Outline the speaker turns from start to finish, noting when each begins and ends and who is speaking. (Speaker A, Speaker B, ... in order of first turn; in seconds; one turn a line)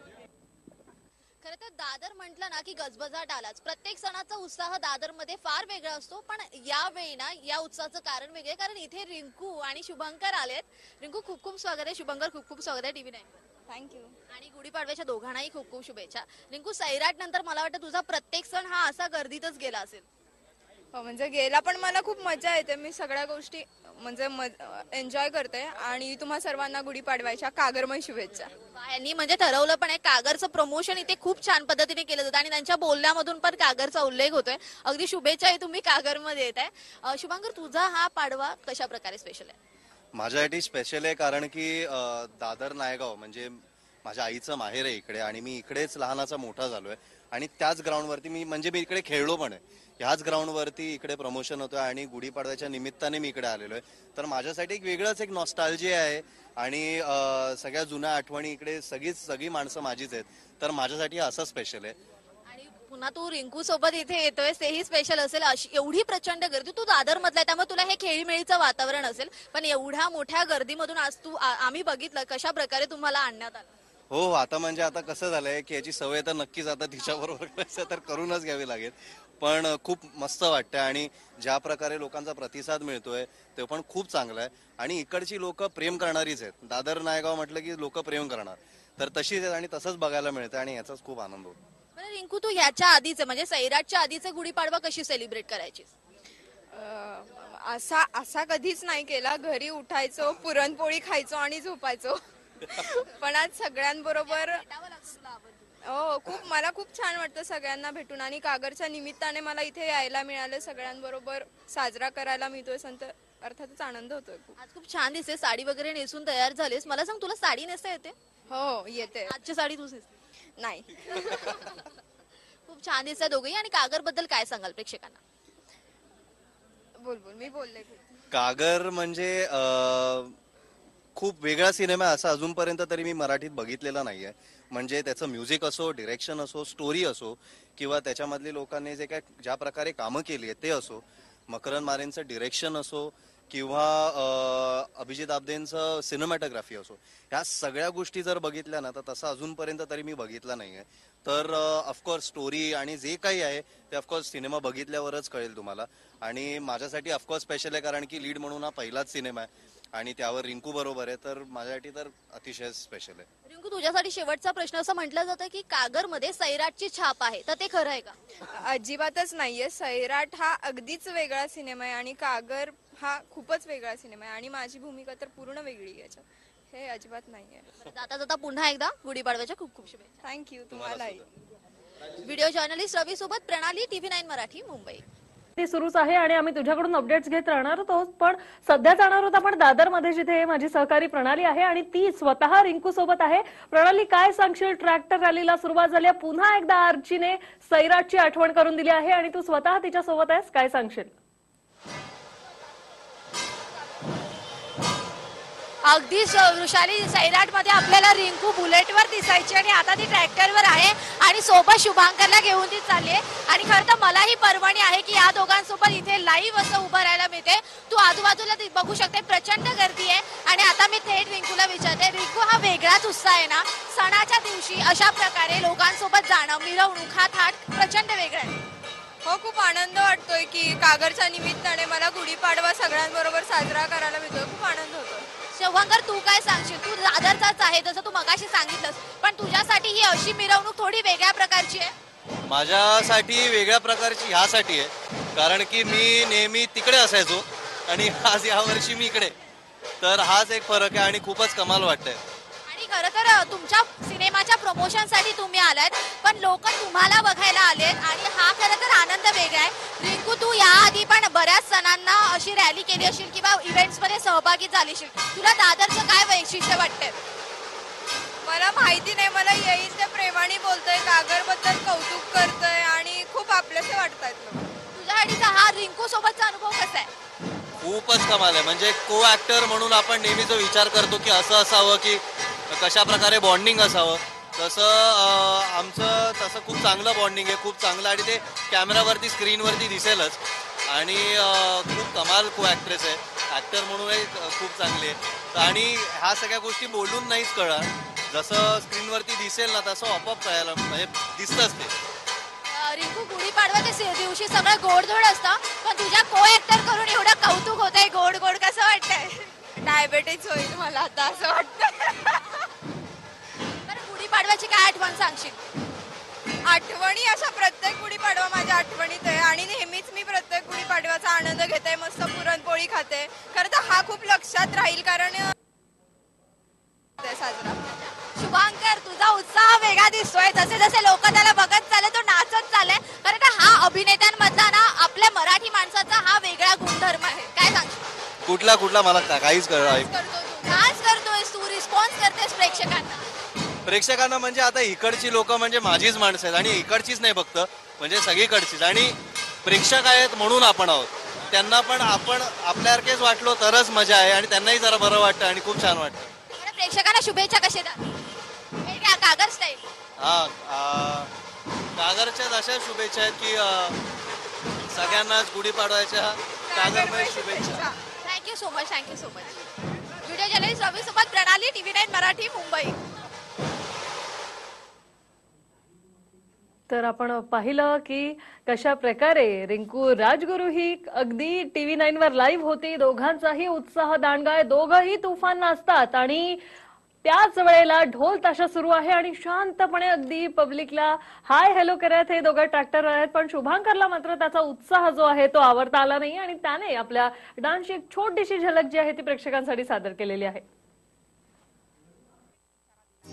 Speaker A: 1.4-13.4
Speaker B: 13.7-14.1
Speaker A: 14.3-20.1
Speaker B: 20.9-28.5
Speaker A: 28.8-39.6
Speaker C: 40.1-62.0
Speaker A: 62.5-73.7
Speaker C: 74.1-91.6
Speaker A: 92.0-95.9
Speaker B: 96.7-104.6
Speaker A: 104.3-105.5
Speaker B: 105.9-114.6
Speaker A: 114.6-118.2
Speaker B: 118.5-119.3
Speaker A: 119.2-120.1
Speaker B: 120.6-121.7
Speaker A: 122.7-125.2
Speaker B: 127.0-128.0
Speaker C: 128.3-130.4
Speaker C: 131.2-163.3
Speaker A: 163.5-168.2
Speaker B: 168.5-177.7
Speaker A: 177.8-180.1
Speaker B: 180.2-181.2
Speaker C: 180.7-181.2
Speaker A: 182.2-185.0
Speaker D: 185.6-201.1
Speaker A: 205.8-228.6
Speaker B: 229.2-235.3
Speaker A: 235.5-241.9
Speaker C: 242.5-249.4
Speaker C: 250.0-252.2
Speaker A: 252.7-267.2
Speaker B: 268.4-274.7
Speaker A: 274.9-277.1
Speaker C: 277.8-301.9
Speaker A: 302.7-309.5
Speaker B: 309.8-312.7
Speaker A: 313.9-315.6
Speaker B: 316.7-325.5
Speaker B: 327.2-327.8
Speaker A: 328.2-338.1
Speaker C: 338.4-340.1
Speaker A: 339.8-343.3
Speaker C: 343.9-356.3
Speaker A: 356.5-358.0
Speaker A: 358.8-359.8
Speaker C: 360.2-361.3
Speaker C: 362.0-364.0
Speaker C: 364.9-367.9
Speaker B: 366.7-368.0
Speaker A: 368.2-369.7
Speaker A: 370.2-373.0
Speaker D: 376.9-386.6
Speaker D: 387.2-400.6